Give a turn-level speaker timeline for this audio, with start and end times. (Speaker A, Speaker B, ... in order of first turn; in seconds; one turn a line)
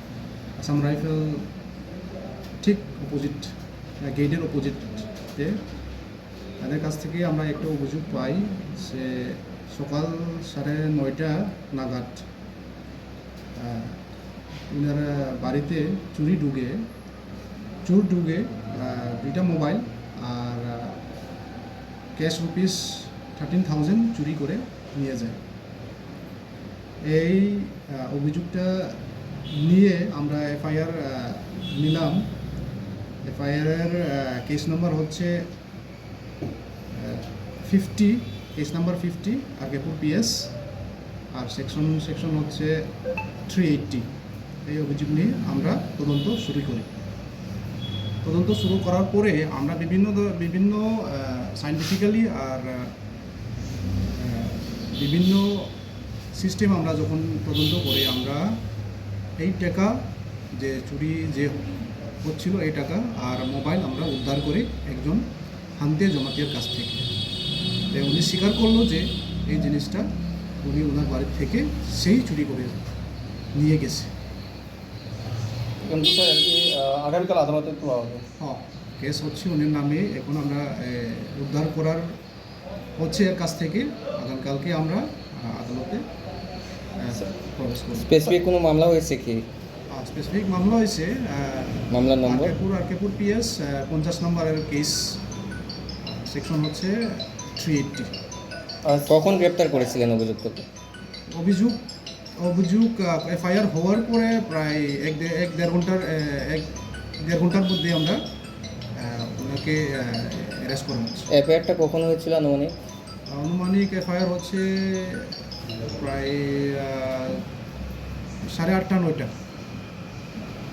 Speaker A: 0.6-1.5
Speaker A: 2.6-5.6
Speaker A: 6.6-12.2
Speaker A: 13.5-14.0
Speaker A: 14.7-16.9
Speaker A: 17.8-21.0
Speaker A: 22.1-25.4
Speaker A: 27.0-29.0
Speaker A: 29.5-32.3
Speaker A: 33.2-35.4
Speaker A: 36.9-40.5
Speaker A: 41.3-42.9
Speaker A: 43.5-44.1
Speaker A: 44.6-46.9
Speaker A: 48.2-52.9
Speaker A: 54.1-55.7
Speaker A: 56.3-58.5
Speaker A: 59.4-60.0
Speaker A: 60.5-67.1
Speaker A: 67.9-70.1
Speaker A: 70.6-72.8
Speaker A: 73.5-74.1
Speaker B: 75.8-78.2
Speaker A: 78.4-82.0
Speaker A: 83.0-86.0
Speaker A: 87.0-88.3
Speaker C: 87.9-89.5
Speaker A: 89.9-95.2
Speaker C: 91.9-92.5
Speaker A: 96.0-98.1
Speaker B: 98.8-99.1
Speaker C: 99.0-100.6
Speaker A: 101.3-101.8
Speaker A: 102.4-108.2
Speaker A: 109.0-111.3
Speaker C: 111.3-112.7
Speaker A: 113.3-115.3
Speaker A: 115.9-117.4
Speaker A: 118.5-119.3